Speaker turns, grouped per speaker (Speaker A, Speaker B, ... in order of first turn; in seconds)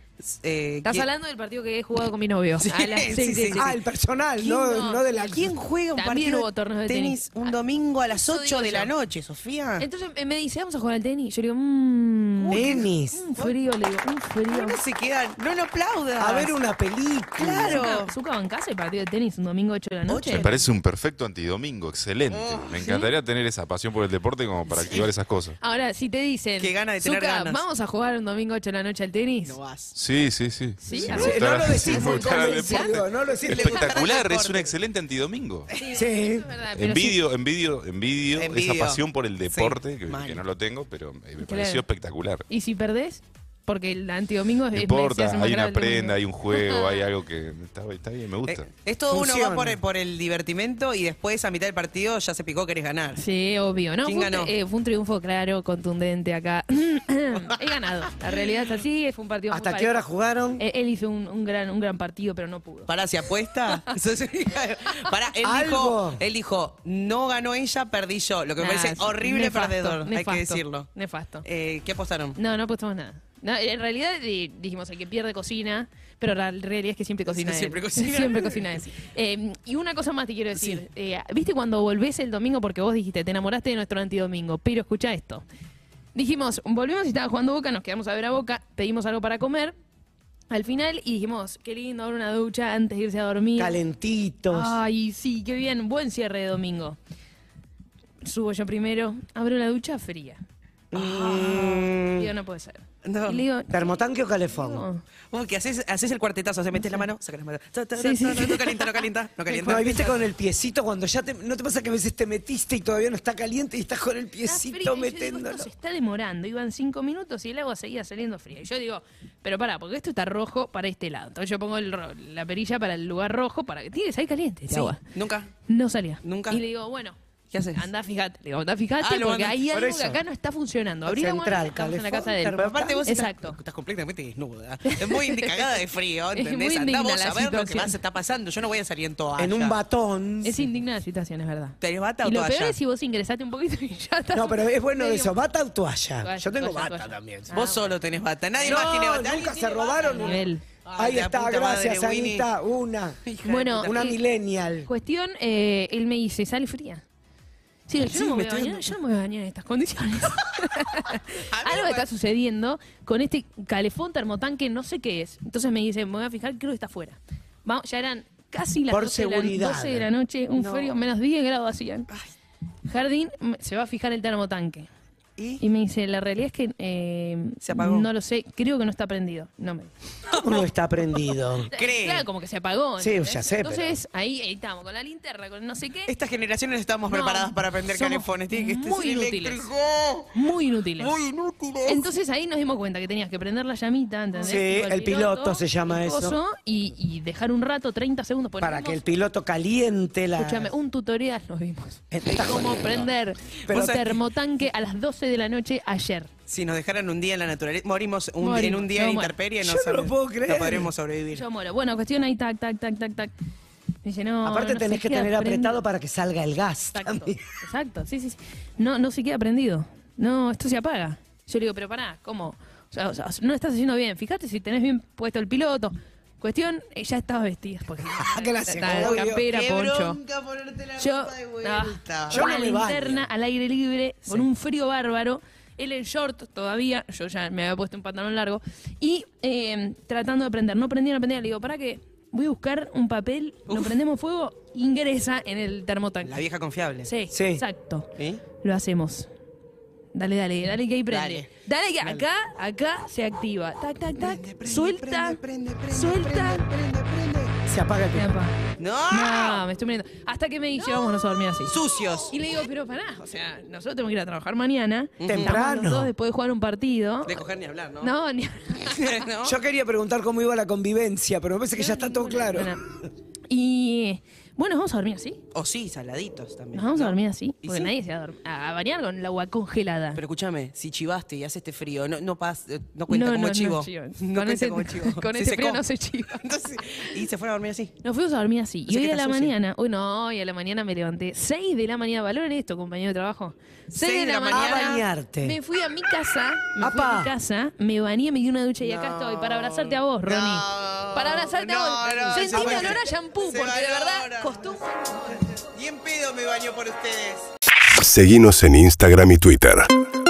Speaker A: 0.2-1.1, 2.6-3.7, 4.4-9.8, 12.4-13.5, 14.5-16.6, 17.4-18.1, 20.1-20.7, 22.3-23.0, 24.8-25.1, 26.6-27.6, 29.4-29.9, 33.5-34.7, 35.7-36.0, 38.3-40.4, 48.4-53.2, 54.0-54.5, 57.4-58.6, 62.9-70.9, 71.4-72.3, 77.3-78.9, 100.9-102.1, 103.0-103.4, 105.3-110.2, 124.7-125.5, 126.2-126.6, 127.5-127.8, 129.0-129.6, 132.5-139.8, 141.8-142.7, 147.5-152.5, 153.2-154.0, 158.0-158.9, 161.5-162.1, 170.5-171.0, 175.4-175.6, 177.6-178.1, 180.3-180.6, 181.6-182.2, 186.1-190.3, 191.0-192.1, 203.7-204.2, 206.5-211.4, 228.8-232.5, 243.7-243.9, 246.2-247.1, 248.2-248.4, 251.1-251.5, 254.2-257.6, 258.8-259.6, 261.6-262.3, 265.2-265.6, 267.2-268.1, 268.8-269.6, 275.5-277.9, 280.1-285.8, 286.4-287.9, 288.9-289.5, 293.9-295.0, 298.8-304.7, 305.4-307.5
Speaker B: 0.8-3.8, 4.7-5.1, 5.9-7.5, 8.1-8.9, 9.8-14.8, 17.6-20.5, 25.6-29.6, 30.8-33.0, 35.7-37.2, 41.4-41.8, 42.5-47.1, 53.1-60.0, 60.6-62.9, 68.6-71.4, 72.3-85.4, 86.1-89.7, 90.5-93.8, 94.5-97.0, 98.2-100.4, 101.3-103.9, 104.5-105.0, 108.0-109.0, 109.5-109.8, 114.4-125.0, 125.7-127.2, 127.7-133.6, 134.8-135.7, 136.3-138.0, 140.4-145.4, 146.2-147.9, 148.6-148.9, 150.0-150.6, 153.4-154.2, 154.8-157.0, 157.9-172.1, 172.8-174.9, 175.6-179.9, 181.7-186.1, 187.1-189.7, 190.3-191.1, 191.8-199.0, 200.4-206.3, 208.4-209.3, 211.3-213.3, 214.0-215.8, 216.9-230.2, 231.0-246.4, 247.0-249.3, 250.1-255.4, 255.9-256.6, 258.1-258.6, 259.1-261.7, 262.3-267.4, 268.0-269.2, 271.7-272.8, 273.5-275.4, 276.7-280.2, 283.1-287.1, 288.0-305.4
Speaker C: 3.5-5.5, 12.5-13.3, 16.2-17.8, 31.1-33.9, 35.9-36.5, 49.1-49.8, 59.5-60.6, 65.4-66.2, 93.6-94.8, 100.9-102.2, 103.7-104.8, 109.5-115.7, 129.7-130.2, 131.0-133.0, 139.4-140.7, 144.3-147.6, 148.6-153.2, 153.8-154.9, 168.9-170.1, 180.3-181.7, 183.0-184.0, 194.3-196.4, 198.6-200.7, 202.1-203.1, 209.6-210.9, 214.4-217.4, 228.1-229.4, 232.3-233.2, 247.3-247.6, 257.6-258.3, 265.3-266.1, 269.4-272.8, 294.5-295.6, 296.8-297.3, 302.1-303.0
Speaker D: 20.2-25.6, 29.9-35.7, 36.7-42.4, 44.7-48.7
Speaker E: 307.9-309.9